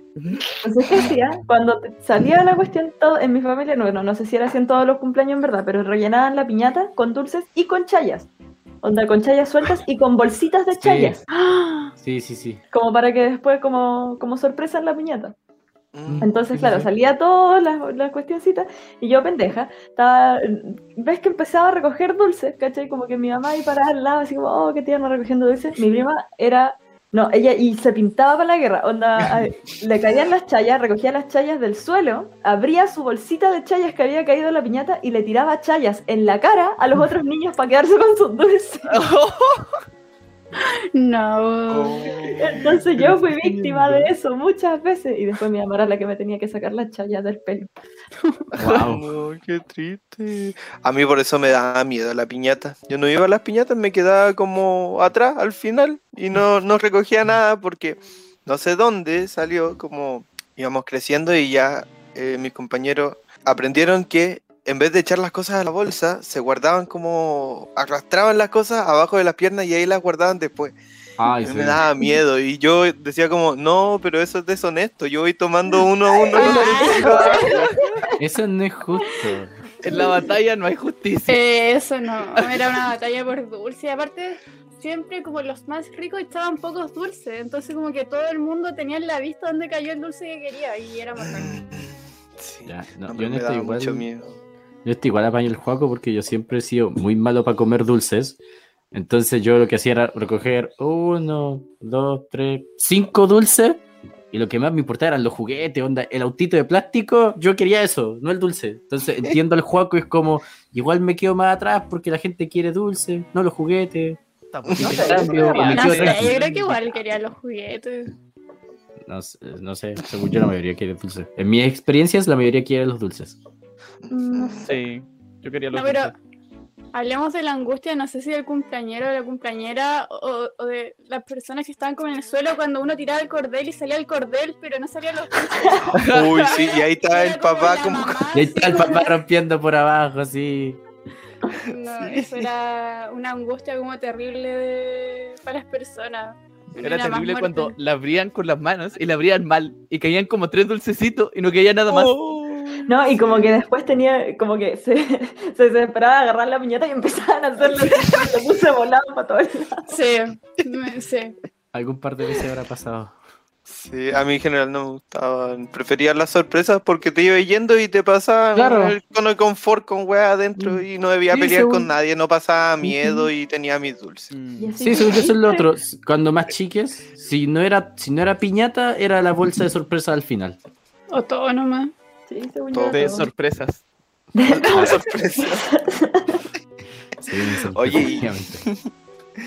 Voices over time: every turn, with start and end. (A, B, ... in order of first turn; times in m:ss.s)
0:00.2-0:00.4 A
0:00.6-0:08.3 B
0:08.8-0:11.9 B
0:10.8-0:11.2 C
0:12.0-0:12.6 C
0:12.7-0:15.3 B
0:15.9-0:16.3 D
0:16.1-0:16.9 C
0:16.2-0:39.0 B
0:38.9-0:39.8 A
0:40.6-0:42.1 E
0:41.7-0:42.6 D
0:42.4-0:47.7 B
0:42.8-0:44.1 A
0:48.5-0:48.9 A
0:48.6-0:49.0 C
0:48.8-1:10.7 D
1:11.2-1:11.8 C
1:11.4-1:17.2 D
1:16.1-1:18.1 B
1:16.3-1:17.5 E
1:16.7-1:17.9 A
1:18.2-1:19.6 C
1:19.8-1:21.4 A
1:19.9-1:20.2 B
1:21.3-1:31.6 E
1:31.2-1:34.3 D
1:31.4-1:31.9 C
1:32.6-1:34.0 C
1:34.8-1:38.4 C
1:38.9-1:54.2 C
1:54.5-1:56.8 A
1:54.7-1:56.4 C
1:54.8-1:55.9 B
1:55.7-1:58.1 E
1:59.1-2:03.4 C
2:04.1-2:04.7 D
2:04.1-2:04.7 B
2:04.6-2:06.2 A
2:05.7-2:06.1 E
2:06.9-2:19.1 E
2:15.9-2:16.5 A
2:15.9-2:18.3 D
2:18.3-2:20.8 C
2:18.7-2:19.0 B
2:21.5-2:27.7 E
2:22.0-2:22.4 D
2:26.8-2:33.5 A
2:31.9-2:32.1 D
2:32.9-2:39.9 B
2:37.7-2:38.2 A
2:39.9-2:41.4 E
2:41.7-2:43.1 C
2:43.7-2:54.3 D
2:48.5-2:49.0 C
2:52.8-2:53.3 B
2:54.3-2:54.8 A
2:54.6-2:55.6 B
2:54.8-3:00.6 C
3:01.1-3:01.9 E
3:02.3-3:03.3 B
3:02.7-3:03.2 D
3:02.9-3:03.8 A
3:04.3-3:06.4 B
3:04.6-3:05.6 D
3:04.7-3:05.0 C
3:07.2-3:08.6 C
3:07.7-3:08.8 D